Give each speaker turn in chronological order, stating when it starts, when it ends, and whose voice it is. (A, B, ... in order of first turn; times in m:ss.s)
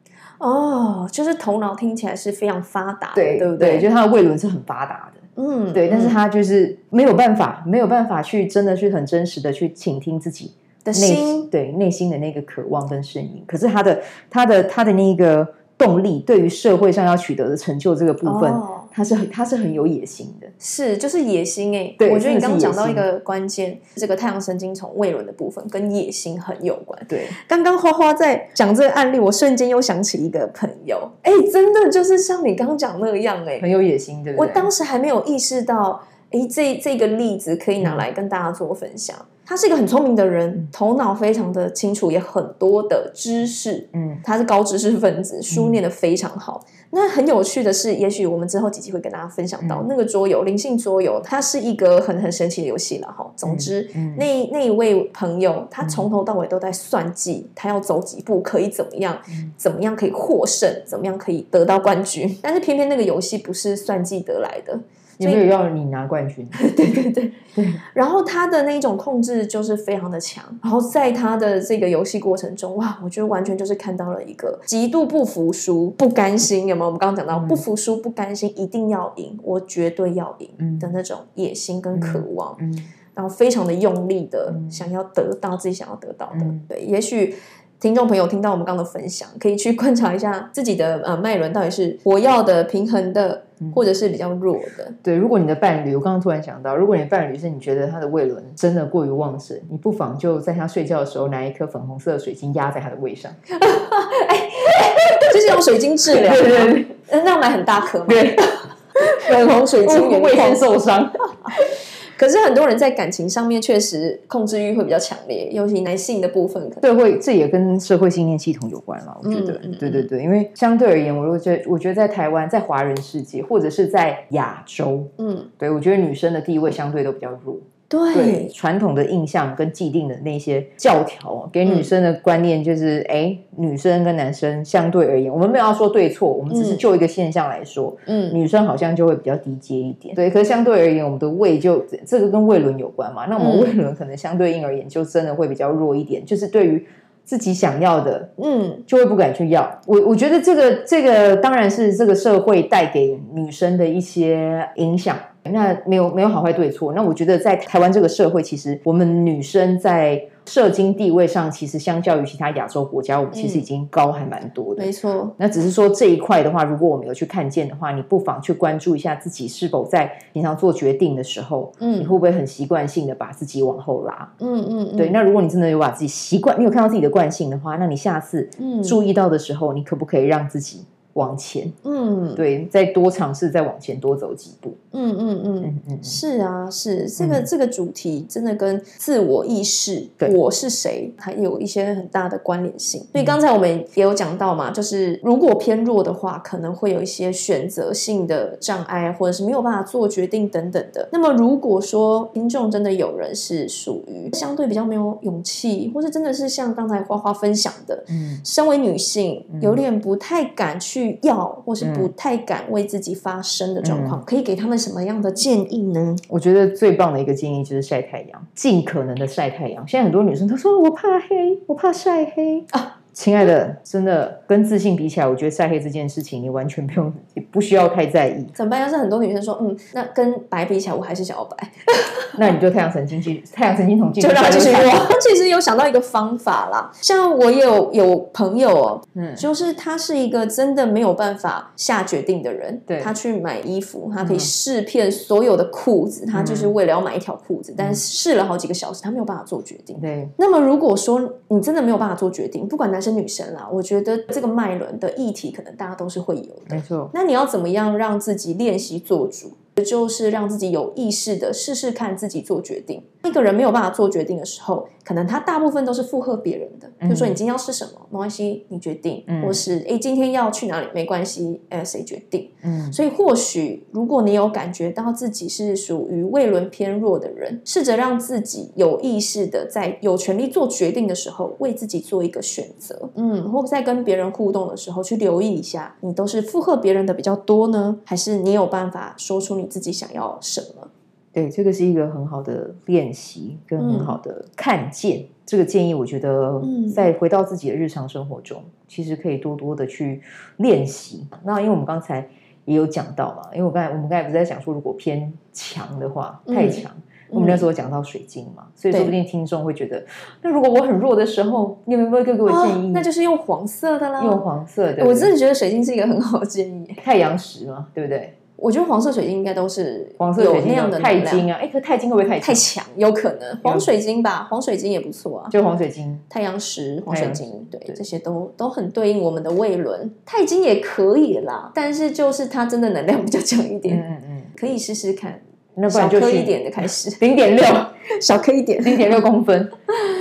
0:00.4-0:03.9 A
0:03.1-0:05.2 B
0:05.4-0:06.2 A
0:05.7-0:20.5 B
0:10.8-0:11.5 A
0:18.2-0:18.9 A
0:20.6-0:33.7 A
0:22.0-0:23.0 B
0:27.1-0:27.3 B
0:33.6-0:34.7 B
0:34.4-1:05.4 A
0:37.8-0:38.0 B
0:43.9-0:44.2 B
0:45.5-0:45.8 B
0:49.6-0:49.9 B
0:53.4-0:54.2 B
0:55.8-0:56.1 B
1:05.2-1:06.6 B
1:06.5-1:22.6 A
1:07.5-1:07.8 B
1:17.3-1:17.6 B
1:20.6-1:20.9 B
1:21.9-1:22.9 B
1:23.1-1:35.0 A
1:24.5-1:24.8 B
1:26.3-1:26.6 B
1:35.0-1:43.4 B
1:43.5-1:50.6 A
1:46.1-1:46.9 B
1:48.1-1:48.6 B
1:49.2-1:51.2 B
1:51.5-1:56.8 A
1:56.8-2:28.3 B
1:59.2-2:00.1 A
2:05.2-2:05.5 A
2:07.9-2:08.5 A
2:16.5-2:16.8 A
2:18.1-2:18.4 A
2:23.4-2:23.7 A
2:28.4-2:28.8 A
2:28.9-2:54.3 B
2:43.3-2:43.6 A
2:44.8-2:45.3 A
2:51.8-2:52.1 A
2:54.4-2:55.2 A
2:55.0-3:01.7 B
2:58.6-2:59.0 A
3:01.8-3:02.4 A
3:02.4-3:04.8 B
3:04.9-3:36.2 A
3:05.6-3:06.2 B
3:07.2-3:07.5 B
3:28.1-3:28.4 B
3:29.5-3:29.8 B
3:31.8-3:32.1 B
3:33.8-3:34.2 B
3:36.3-3:48.5 B
3:48.5-3:52.4 A
3:52.4-3:55.1 B
3:54.2-4:50.9 A
3:59.1-3:59.4 B
4:02.9-4:03.1 B
4:04.2-4:04.5 B
4:06.3-4:06.7 B
4:10.0-4:10.3 B
4:16.7-4:17.1 B
4:27.0-4:27.4 B
4:29.3-4:29.7 B
4:32.6-4:33.0 B
4:51.3-5:13.1 B
4:53.8-4:54.2 A
4:56.6-4:57.1 A
5:06.5-5:07.6 A
5:12.4-5:14.4 A
5:14.2-5:15.3 B
5:15.0-5:17.0 A
5:17.0-5:18.3 B
5:18.6-5:21.4 A
5:20.2-5:22.6 B
5:22.4-5:25.6 A
5:25.5-5:26.2 B
5:26.3-5:34.0 A
5:27.1-5:28.0 B
5:33.8-5:34.5 B
5:34.6-5:39.2 A
5:35.8-5:36.5 B
5:37.2-5:37.9 B
5:38.8-5:39.7 B